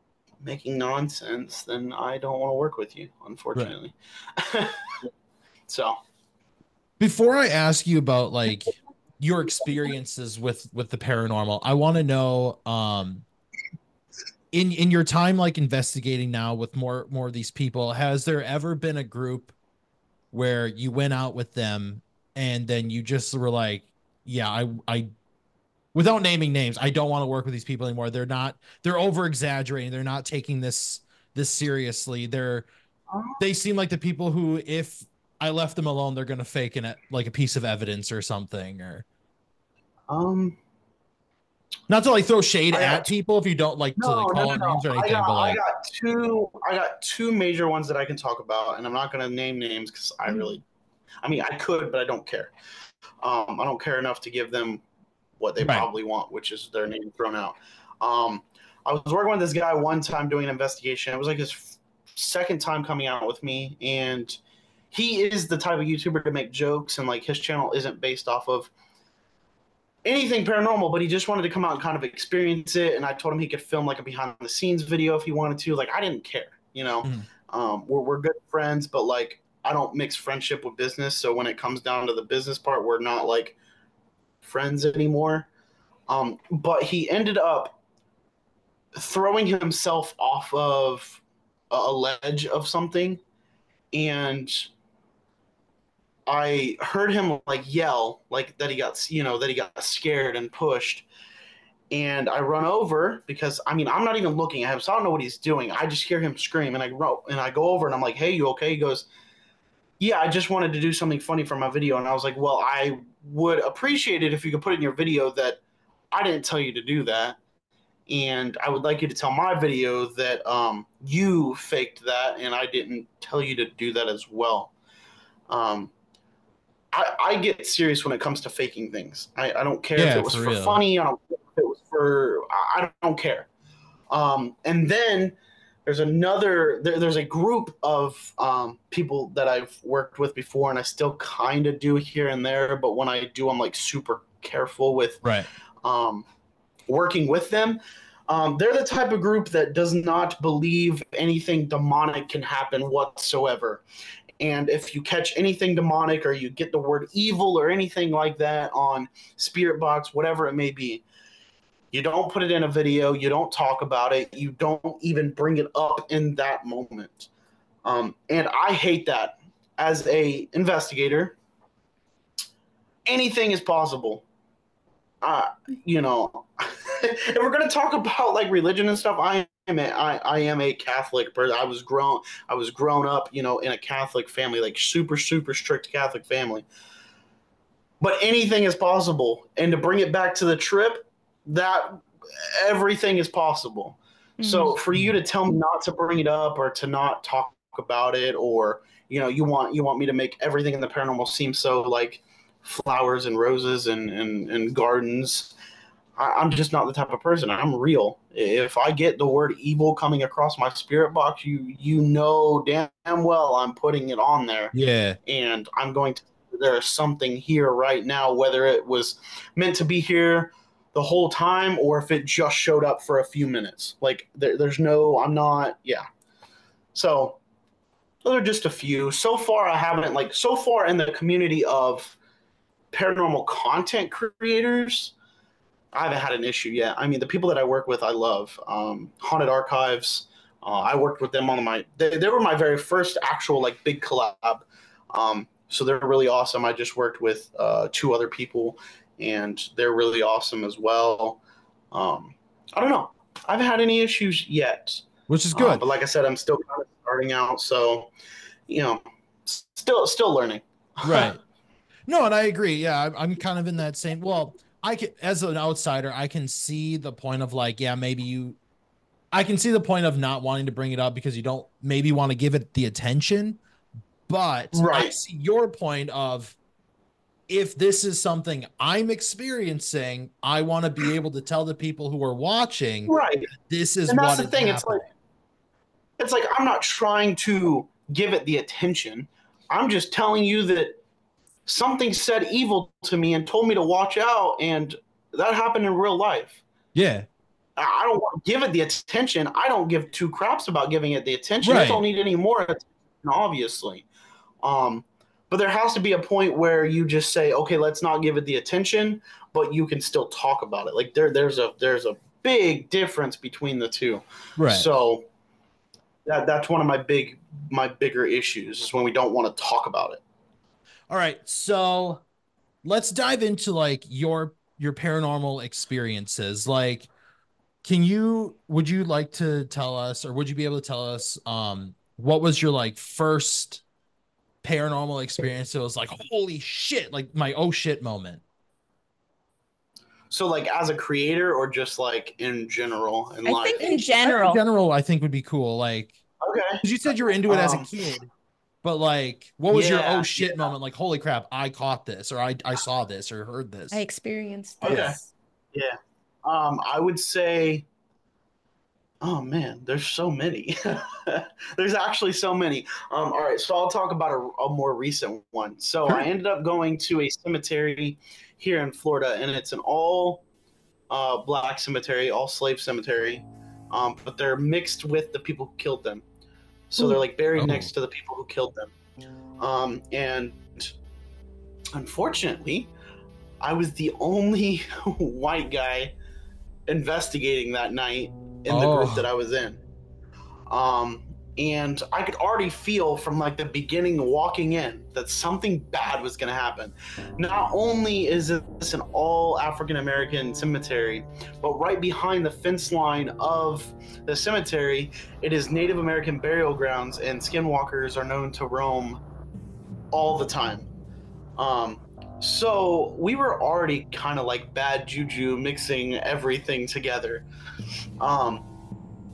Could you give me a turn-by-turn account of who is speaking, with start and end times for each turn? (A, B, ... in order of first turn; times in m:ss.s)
0:00.4-0:05.0 A
0:05.7-0:06.0 A
0:07.0-0:13.2 B
0:14.5-0:19.5 B
0:20.3-0:25.1 B
0:25.9-0:32.7 B
0:33.1-0:33.4 A
0:33.4-0:39.0 B
0:40.1-0:40.6 A
0:41.9-0:45.6 B
0:42.7-0:43.1 A
0:44.0-0:50.6 A
0:51.2-0:52.5 A
0:53.2-0:54.8 A
0:55.4-1:04.4 A
0:55.6-0:55.8 B
1:04.9-1:08.7 A
1:10.0-1:23.6 A
1:24.4-1:25.5 A
1:26.1-1:27.8 A
1:29.0-1:33.2 A
1:33.9-1:34.7 A
1:36.3-1:41.0 A
1:41.9-1:49.1 A
1:50.0-1:55.6 A
1:56.1-1:57.4 A
1:58.1-2:04.7 A
2:05.5-2:05.9 A
2:06.9-2:13.5 A
2:10.0-2:10.8 B
2:14.1-2:15.3 A
2:15.8-2:25.2 A
2:25.2-2:25.5 B
2:25.8-2:26.3 A
2:26.9-2:33.8 A
2:34.4-2:41.0 A
2:41.9-2:47.3 A
2:47.8-2:51.4 A
2:53.1-2:54.2 A
2:55.2-3:06.6 A
3:08.0-3:25.5 A
3:14.4-3:14.8 C
3:26.2-3:34.7 A
3:34.7-3:35.2 B
3:35.2-3:46.0 A
3:46.9-3:47.4 A
3:48.2-3:52.2 A
3:52.9-3:55.1 A
3:55.9-4:11.4 A
4:11.9-4:18.1 A
4:15.3-4:15.8 B
4:18.7-4:21.3 A
4:21.0-4:21.4 B
4:22.1-4:28.6 B
4:29.3-4:33.6 B
4:34.3-4:36.6 B
4:34.7-4:35.1 A
4:37.5-4:43.1 B
4:43.1-4:43.5 A
4:43.7-4:45.0 B
4:44.1-4:45.0 A
4:46.2-4:51.0 A
4:51.7-4:56.6 A
4:56.9-4:57.3 B
4:57.8-5:04.0 A
5:01.6-5:02.0 B
5:04.6-5:15.2 A
5:14.6-5:14.9 B
5:16.2-5:20.2 A
5:21.1-5:22.2 B
5:22.8-5:27.1 B
5:27.8-5:33.8 B
5:34.6-5:38.4 B
5:40.3-5:44.1 A
5:43.4-5:44.6 C
5:44.2-5:46.1 B
5:46.4-5:46.8 A
5:46.8-5:48.3 B
5:47.5-5:47.9 A
5:48.8-5:54.0 B
5:49.7-5:50.7 A
5:53.9-5:55.2 C
5:54.8-5:55.2 A
5:54.8-5:55.2 B
5:55.7-5:57.8 A
5:59.2-6:10.4 A
6:11.1-6:16.2 A
6:16.9-6:18.9 A
6:17.6-6:17.9 B
6:19.6-6:20.9 A
6:21.9-6:22.9 A
6:23.6-6:26.1 A
6:26.9-6:29.8 A
6:28.7-6:29.2 B
6:30.7-6:49.2 A
6:50.1-6:50.9 A
6:51.6-6:57.4 A
6:58.2-6:58.6 A